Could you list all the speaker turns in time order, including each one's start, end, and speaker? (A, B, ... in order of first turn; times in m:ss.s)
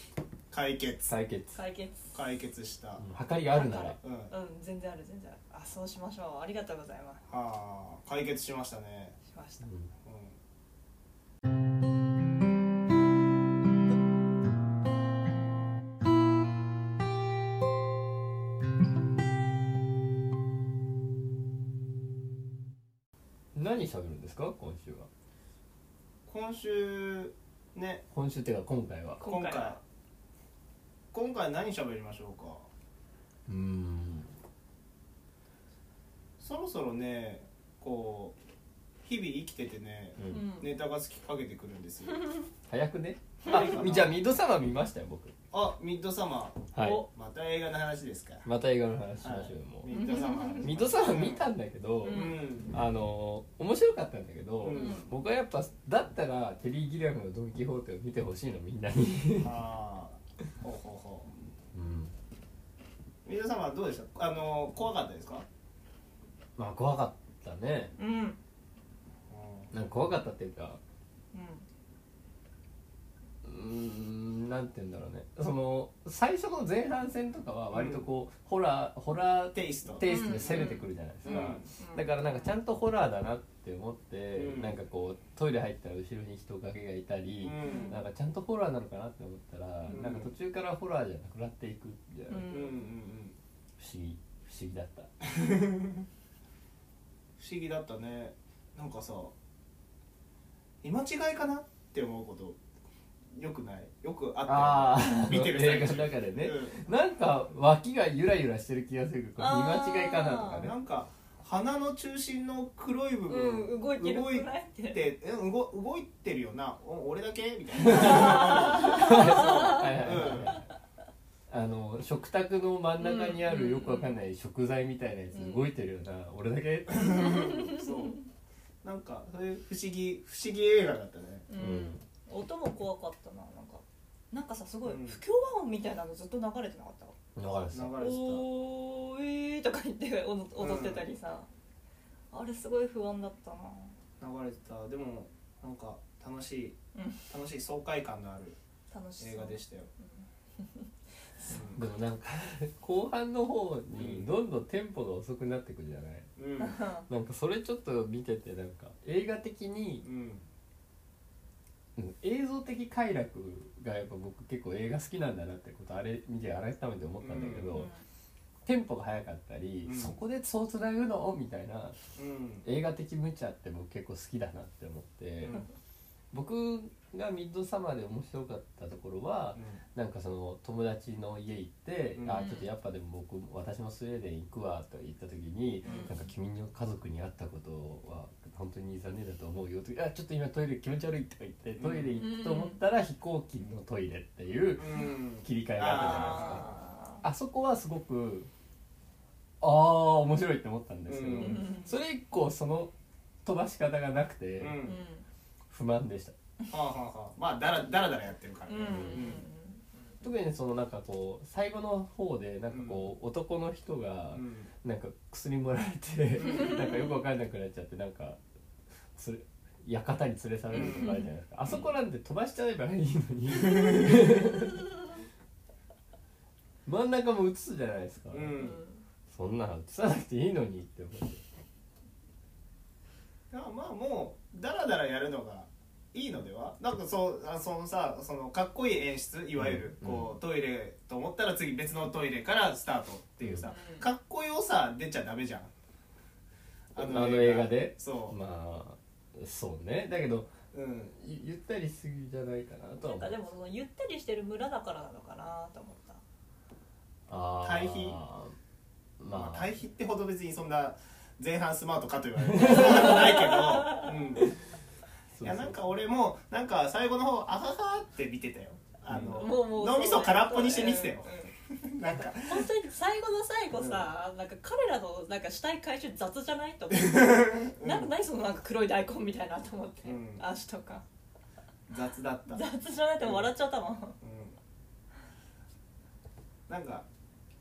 0:00.5-0:01.1 A
0:01.0-0:01.6 B
0:01.5-0:02.2 C
0:02.1-0:03.1 A
0:03.0-0:04.0 B
0:03.5-0:07.2 C
0:04.0-0:04.3 A
0:07.3-0:09.2 A
0:09.3-0:09.7 C
0:09.6-0:09.9 B
0:10.0-0:10.3 A
0:23.5-0:25.1 B
0:26.3-0:28.0 A
0:28.1-0:29.2 B
0:29.2-0:29.8 C
0:29.2-0:29.8 A
0:31.1-0:32.7 A
0:33.5-0:34.3 B
0:36.4-0:38.4 A
0:39.0-0:42.3 A
0:40.2-0:40.4 B
0:40.3-0:40.7 C
0:42.7-0:45.3 B
0:43.4-0:44.2 A
0:45.5-0:48.4 A
0:46.7-0:47.0 B
0:46.8-0:47.1 C
0:48.4-0:50.0 B
0:49.2-0:51.4 A
0:49.9-0:50.7 C
0:50.6-0:59.5 B
0:52.0-0:52.4 C
0:52.0-0:52.7 A
0:54.6-0:55.0 A
0:54.7-0:55.1 C
0:59.4-1:01.3 A
1:01.7-1:02.1 B
1:03.2-1:05.4 A
1:06.6-1:07.9 B
1:08.0-1:08.4 C
1:09.3-1:09.7 A
1:09.7-1:10.8 B
1:11.3-1:11.6 C
1:13.4-1:32.5 B
1:17.7-1:18.0 A
1:19.5-1:20.0 A
1:20.0-1:22.5 C
1:21.2-1:21.7 A
1:24.3-1:24.8 A
1:27.4-1:28.0 A
1:27.6-1:28.0 C
1:29.9-1:30.3 A
1:32.3-1:32.9 C
1:32.5-1:33.4 A
1:33.8-1:35.1 B
1:35.2-1:36.0 A
1:37.4-1:39.3 A
1:40.8-1:42.6 A
1:43.3-1:46.8 A
1:44.4-1:50.7 B
1:49.4-1:50.7 C
1:50.6-2:00.6 A
1:53.3-1:55.0 C
1:57.8-2:00.6 B
1:57.9-2:00.5 C
2:01.5-2:07.6 B
2:03.0-2:04.2 C
2:05.3-2:05.7 C
2:06.9-2:08.2 A
2:07.2-2:07.9 C
2:08.8-2:11.5 A
2:11.5-2:17.1 C
2:11.6-2:12.0 B
2:14.8-2:15.2 A
2:17.4-2:18.0 B
2:17.7-2:18.4 A
2:18.0-2:21.5 C
2:20.6-2:21.1 A
2:22.3-2:24.0 C
2:24.2-2:26.8 A
2:26.9-2:27.3 C
2:27.3-2:28.6 A
2:28.9-2:31.5 C
2:29.2-2:29.9 A
2:31.4-2:31.8 A
2:31.7-2:36.3 B
2:34.0-2:34.3 A
2:36.4-2:36.8 A
2:36.6-2:37.0 C
2:37.1-2:40.0 B
2:40.0-2:40.4 A
2:42.0-2:47.9 B
2:47.2-2:47.9 A
2:47.7-2:48.0 C
2:48.6-2:52.0 B
2:49.8-2:50.1 A
2:52.2-2:52.6 A
2:52.6-2:55.6 B
2:56.3-3:16.7 B
2:59.5-2:59.8 A
3:02.2-3:02.4 A
3:02.3-3:02.7 C
3:05.8-3:06.1 A
3:05.8-3:06.3 C
3:11.8-3:12.2 A
3:12.2-3:12.8 C
3:14.8-3:16.7 A
3:15.8-3:17.2 C
3:17.2-3:18.5 B
3:19.6-3:22.9 B
3:21.1-3:21.7 A
3:21.3-3:21.9 C
3:23.4-3:24.8 B
3:24.6-3:25.0 A
3:24.8-3:25.2 C
3:25.7-3:26.3 B
3:26.7-3:29.4 A
3:28.7-3:29.8 C
3:28.8-3:29.4 B
3:30.2-3:38.4 B
3:32.7-3:33.0 A
3:34.3-3:34.7 A
3:39.1-3:44.8 B
3:40.7-3:41.2 A
3:40.7-3:41.3 C
3:46.8-3:48.6 B
3:48.3-3:48.8 A
3:48.6-3:49.0 C
3:49.3-3:51.4 B
3:53.5-4:05.7 A
3:59.6-4:00.3 B
4:03.4-4:03.7 B
4:03.6-4:04.1 C
4:06.9-4:08.4 A
4:07.0-4:10.5 B
4:10.7-4:11.1 A
4:11.1-4:13.4 B
4:13.0-4:16.2 C
4:17.3-4:18.5 B
4:17.6-4:18.2 A
4:19.2-4:19.7 B
4:19.3-4:24.5 A
4:22.4-4:23.2 B
4:22.7-4:24.2 C
4:25.3-4:25.8 B
4:25.4-4:32.7 A
4:29.1-4:29.5 B
4:29.3-4:31.5 C
4:32.2-4:41.0 C
4:33.7-4:34.1 A
4:36.9-4:38.1 A
4:40.0-4:40.4 A
4:41.9-4:42.6 A
4:42.5-4:44.2 C
4:43.2-4:43.5 A
4:44.2-4:44.6 A
4:46.7-4:47.0 A